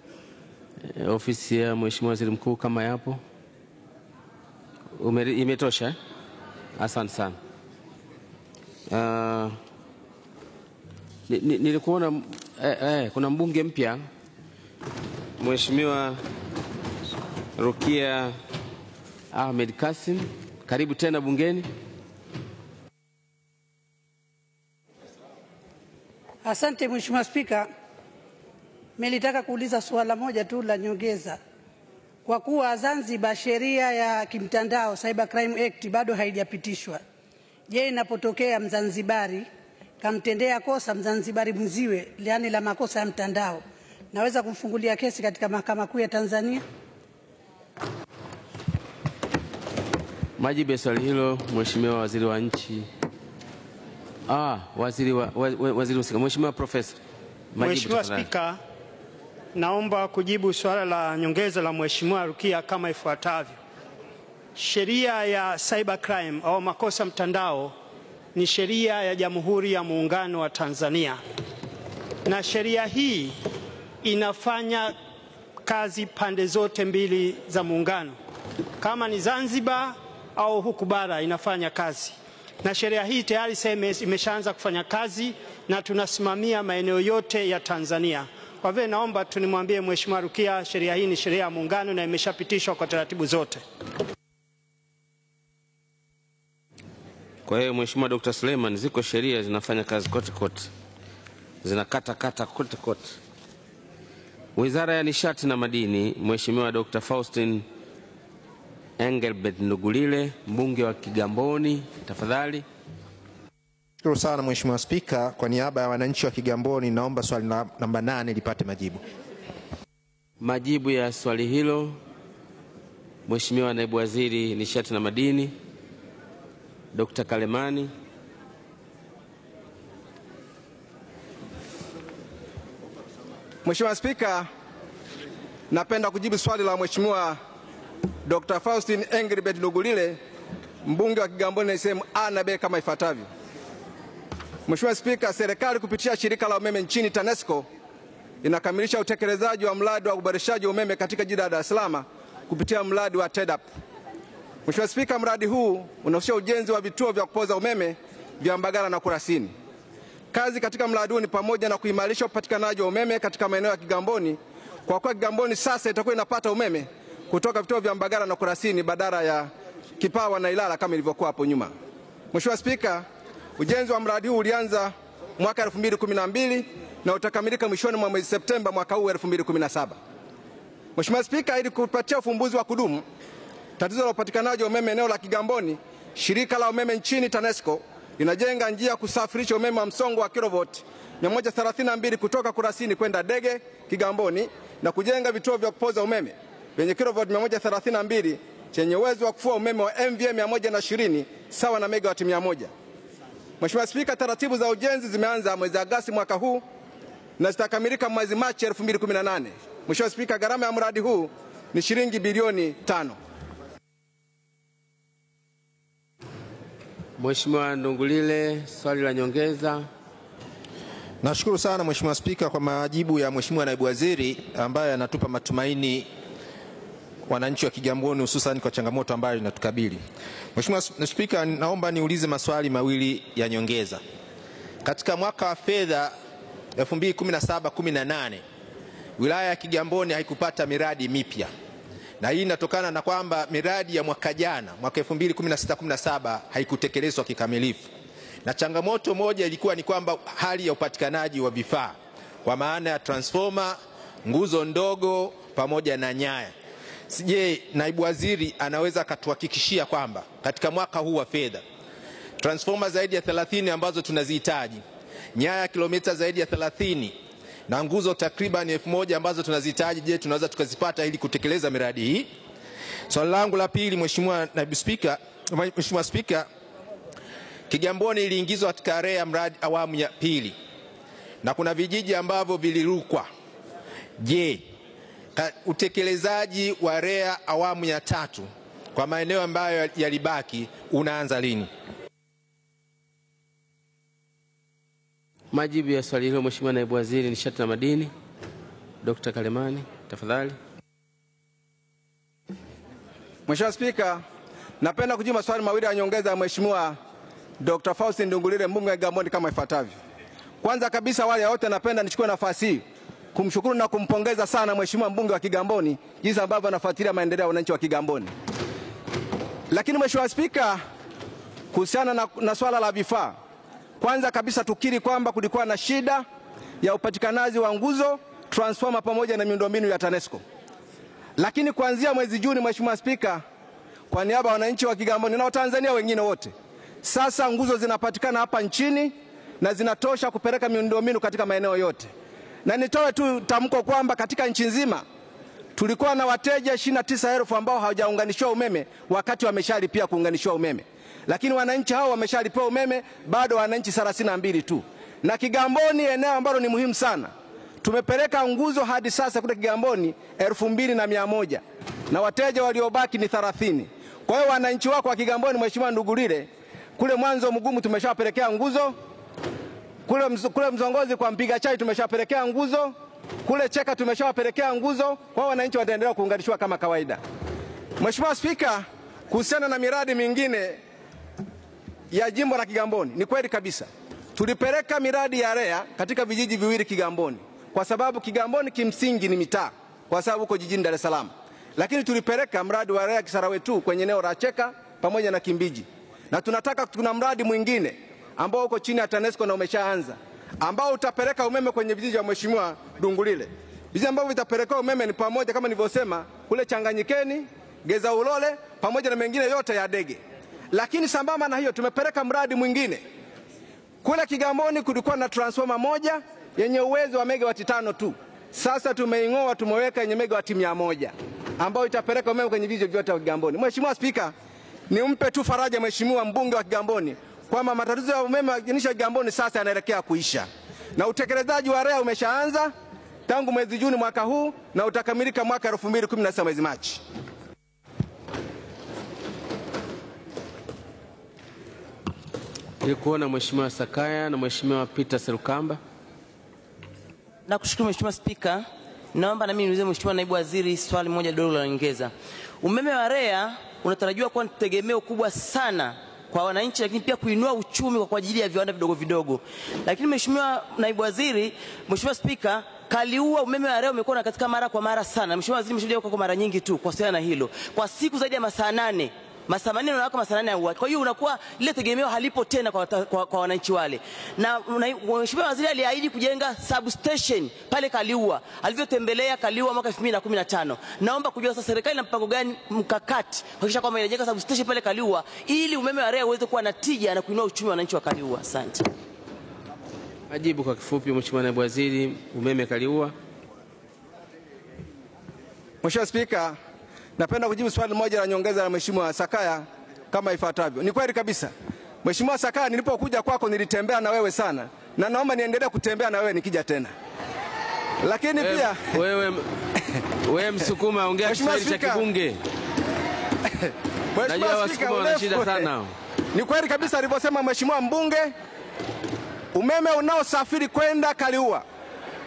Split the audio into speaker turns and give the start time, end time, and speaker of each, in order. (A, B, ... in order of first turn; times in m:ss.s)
0:00.8-0:03.2 A
0:05.0-0:06.0 A
0:06.8-0:07.4 A
0:08.9-0:09.6 A
0:11.3-0:14.0 A
0:15.4-0:16.2 A
0:17.6-0:18.4 A
0:19.3-0:21.7 A
0:26.5-0:27.7 B
0:29.0-0:31.4 B
0:32.3-0:37.0 B
0:37.7-0:39.5 B
0:40.0-0:46.6 B
0:50.4-0:52.9 A
0:54.3-0:57.0 A
0:57.5-0:58.3 A
0:57.6-0:58.6 C
0:59.6-1:03.6 C
1:04.6-1:07.8 C
1:08.4-1:11.2 C
1:12.3-1:13.4 C
1:14.0-1:15.0 C
1:15.6-1:18.2 C
1:18.8-1:33.6 C
1:37.5-1:40.7 A
1:41.6-1:43.2 A
1:44.6-1:47.6 A
1:49.0-1:52.6 A
1:54.0-1:59.0 D
2:00.4-2:02.0 A
2:03.3-2:05.6 A
2:06.9-2:07.9 A
2:13.6-2:14.5 E
2:15.7-2:17.4 E
2:18.3-2:20.2 E
2:20.9-2:23.3 E
2:24.7-2:27.7 E
2:28.4-2:33.6 E
2:34.7-2:39.5 E
2:40.3-2:51.7 E
2:52.3-2:53.1 E
2:53.6-3:00.0 E
3:01.0-3:03.0 E
3:03.8-3:22.7 E
3:23.6-3:26.6 E
3:27.4-3:33.2 E
3:37.2-3:39.9 A
3:41.2-3:46.1 D
3:47.3-3:50.0 D
3:50.6-3:54.0 D
3:54.8-3:56.1 D
3:56.8-3:58.4 D
3:59.2-4:01.5 D
4:02.2-4:07.9 D
4:08.4-4:16.5 D
4:17.1-4:21.6 D
4:22.4-4:24.8 D
4:25.4-4:27.2 D
4:27.7-4:32.3 D
4:33.1-4:36.5 D
4:37.7-4:40.6 D
4:41.4-4:43.3 D
4:44.2-4:44.6 D
4:45.4-4:51.7 D
4:55.5-4:58.1 A
4:59.0-5:00.6 A
5:03.5-5:04.2 E
5:04.8-5:07.0 E
5:07.6-5:10.0 E
5:10.6-5:18.3 E
5:19.7-5:20.8 E
5:21.7-5:23.4 E
5:24.0-5:26.2 E
5:26.8-5:30.4 E
5:31.4-5:33.4 E
5:34.1-5:42.1 E
5:42.7-5:45.0 E
5:45.8-6:09.0 E
6:10.1-6:12.9 E
6:13.4-6:17.2 E
6:18.0-6:20.8 E
6:22.1-6:50.2 E
6:50.7-6:53.0 E
6:54.0-7:04.3 E
7:04.9-7:12.7 E
7:13.3-7:17.0 E
7:22.8-7:25.8 A
7:27.5-7:28.6 F
7:29.2-8:08.9 F
8:10.3-8:13.2 A
8:15.8-8:16.6 E
8:17.2-8:21.5 E
8:22.0-8:26.9 E
8:28.0-8:28.8 E
8:28.4-8:29.6 A
8:30.2-8:32.4 A
8:31.2-8:32.0 E
8:34.2-8:35.7 E
8:34.2-8:35.9 A
8:36.3-8:38.3 E
8:39.5-8:41.6 E